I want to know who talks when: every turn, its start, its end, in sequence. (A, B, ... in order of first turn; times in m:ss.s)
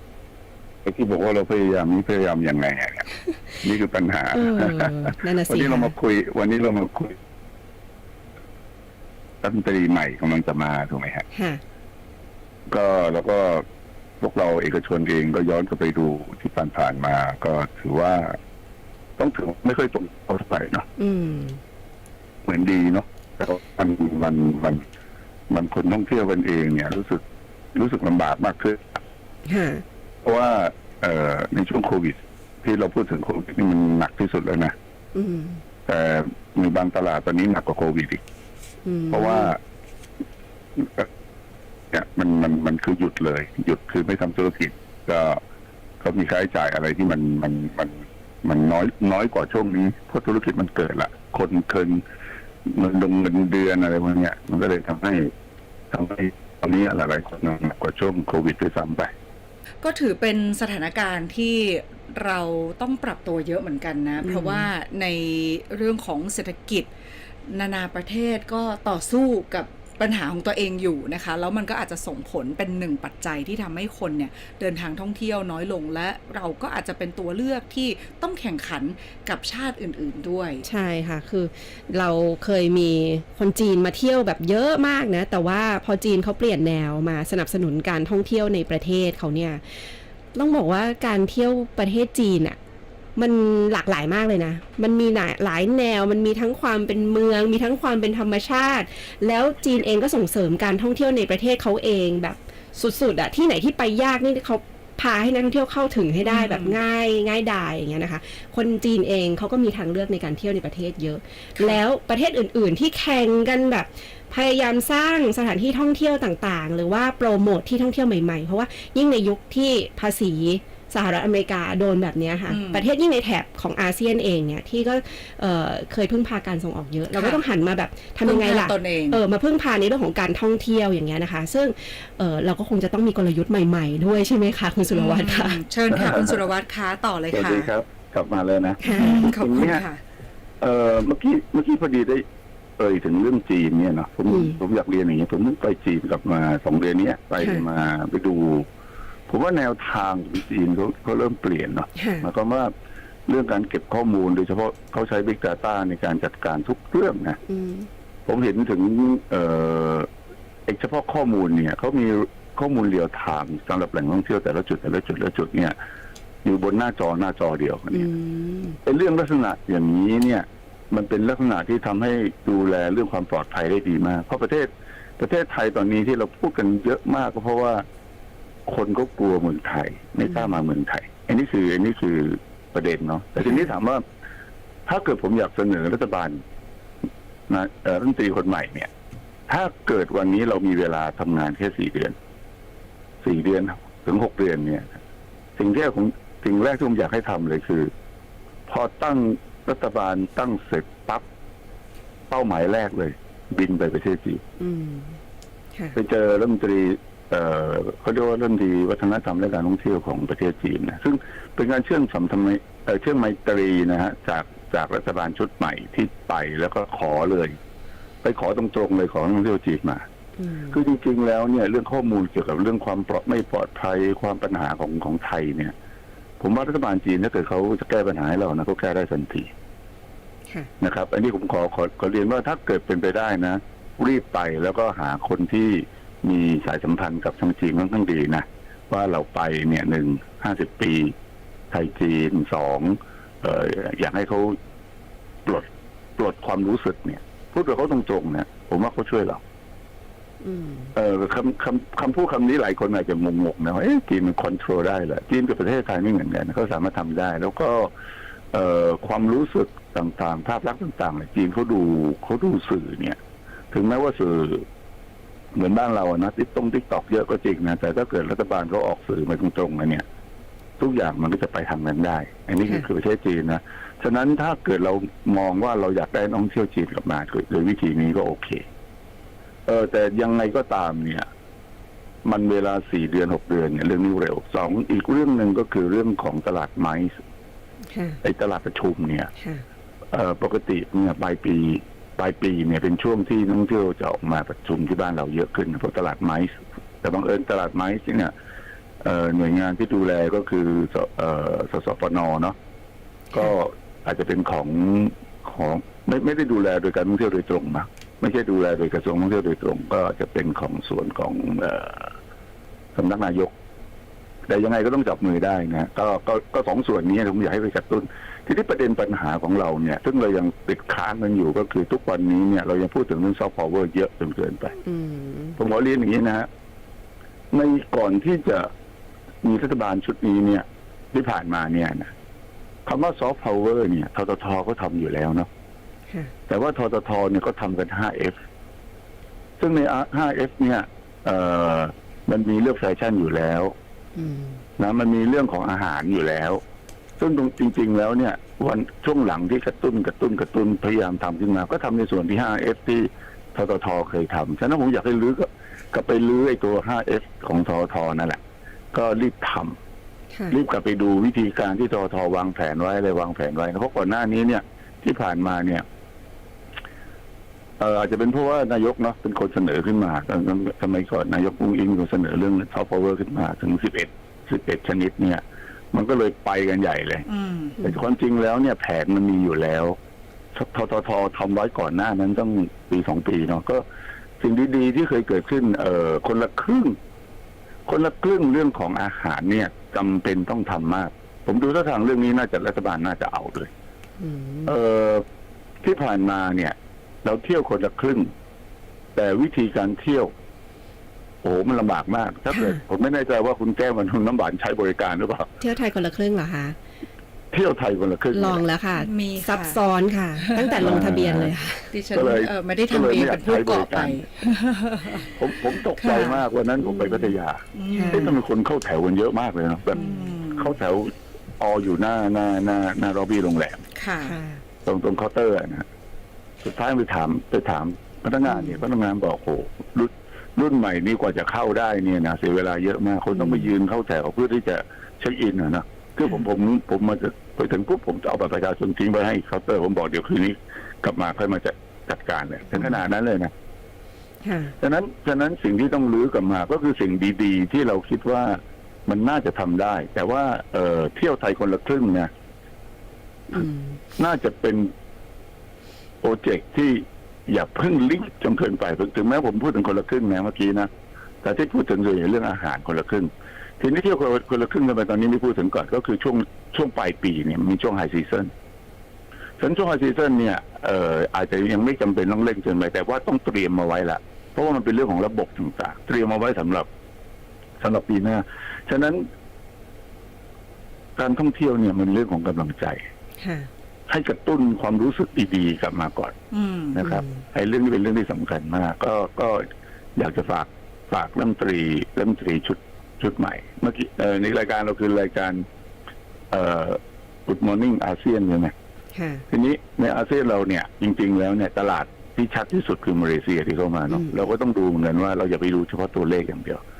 0:00.8-0:03.1 A
0:03.6-0:07.2 A
0:04.3-0:05.9 B
0:09.4-0:11.2 A
0:11.3-0:11.6 B
0:12.7-0:13.6 A
0:14.2-0:18.4 A
0:19.2-0:20.9 A
0:21.0-0:21.6 B
0:22.4-0:24.8 A
0:25.5-0:27.2 A
0:27.7-0:29.0 A
0:29.4-0:29.8 B
0:30.2-0:34.7 A
0:35.1-0:35.6 B
0:35.9-0:38.2 A
0:38.8-0:39.5 B
0:39.1-0:39.6 A
0:40.8-0:41.1 A
0:41.9-0:45.4 A
0:46.0-0:52.0 A
0:52.6-0:55.3 A
0:55.9-0:59.1 A
0:59.8-1:06.9 C
1:04.2-1:04.7 B
1:07.5-1:20.6 C
1:20.6-1:29.8 B
1:30.3-1:32.6 B
1:33.2-2:15.6 B
1:46.2-1:46.8 C
2:02.5-2:02.8 C
2:07.1-2:07.4 C
2:08.2-2:09.2 C
2:14.9-2:17.7 C
2:15.9-2:16.4 A
2:17.3-2:19.8 A
2:18.8-2:19.3 B
2:18.9-2:20.0 C
2:20.6-2:22.2 A
2:22.8-2:28.6 A
2:24.3-2:24.6 B
2:27.4-2:27.6 B
2:29.3-2:32.7 A
2:32.0-2:32.3 B
2:33.3-2:37.4 A
2:37.5-2:37.9 B
2:38.2-2:40.1 A
2:40.7-2:45.8 A
2:46.4-2:48.1 A
2:47.9-2:48.8 B
2:48.8-2:57.8 A
2:58.7-3:04.0 A
3:03.4-3:03.7 B
3:04.8-3:06.4 A
3:07.5-3:08.9 A
3:09.5-3:12.2 A
3:13.2-3:14.9 A
3:15.6-3:17.9 A
3:18.7-3:21.2 A
3:22.3-3:24.4 A
3:24.6-3:25.2 B
3:25.9-3:37.6 A
3:38.2-3:40.0 A
3:40.4-3:40.8 B
3:40.7-3:45.7 A
3:46.4-3:49.5 A
3:50.8-4:01.1 A
4:01.7-4:04.6 A
4:05.4-4:09.4 A
4:10.4-4:10.9 B
4:10.9-4:17.9 A
4:18.5-4:23.2 A
4:23.7-4:24.6 A
4:25.5-4:30.0 A
4:30.8-4:38.6 A
4:39.6-4:41.3 A
4:42.2-4:47.2 A
4:47.9-4:48.2 B
4:48.2-4:49.3 A
4:49.4-4:49.6 B
4:50.1-4:58.3 A
4:59.0-5:02.5 A
5:03.3-5:12.1 A
5:12.9-5:13.5 A
5:14.5-5:24.7 A
5:24.8-5:25.6 B
5:25.6-5:26.5 A
5:27.5-5:28.7 A
5:29.4-5:32.1 A
5:32.8-5:35.5 A
5:36.5-5:38.4 A
5:39.6-5:43.7 A
5:44.2-5:44.6 B
5:44.8-5:46.6 A
5:47.2-5:58.4 A
5:58.9-5:59.8 A
6:00.5-6:05.8 A
6:07.8-6:17.2 A
6:17.3-6:17.8 C
6:17.8-6:20.0 A
6:20.5-6:23.8 A
6:24.4-6:27.0 A
6:27.9-6:33.7 A
6:34.2-6:34.7 B
6:34.6-6:35.2 A
6:35.8-6:38.3 A
6:39.1-6:40.3 A
6:41.4-6:45.5 A
6:42.5-6:42.8 B
6:45.6-6:46.8 B
6:47.5-6:48.6 A
6:48.3-6:51.9 B
6:48.9-6:49.8 C
6:50.4-6:50.7 C
6:50.8-6:51.5 A
6:51.9-6:55.3 C
6:52.1-6:54.2 A
6:55.2-7:03.8 A
6:56.0-6:56.4 C
6:56.8-6:57.4 B
6:57.7-6:58.4 C
6:57.9-6:58.3 B
6:59.9-7:00.3 B
6:59.9-7:00.7 C
7:04.0-7:04.3 C
7:04.2-7:04.6 B
7:04.8-7:05.8 A
7:06.6-7:23.5 A
7:08.5-7:08.8 B
7:13.3-7:13.7 B
7:24.4-7:24.7 B
7:24.8-7:32.3 A
7:33.5-7:34.0 B
7:34.2-7:34.9 A
7:36.2-7:40.9 A
7:41.4-7:48.5 A
7:49.6-7:56.9 A
7:57.8-7:59.3 A
8:01.2-8:03.0 A
8:03.4-8:03.7 B
8:04.1-8:06.3 A
8:06.5-8:07.0 C
8:06.9-8:09.6 A
8:07.0-8:07.4 B
8:10.2-8:15.6 A
8:16.5-8:18.7 A
8:19.1-8:19.4 B
8:19.5-8:26.8 A
8:24.1-8:24.5 B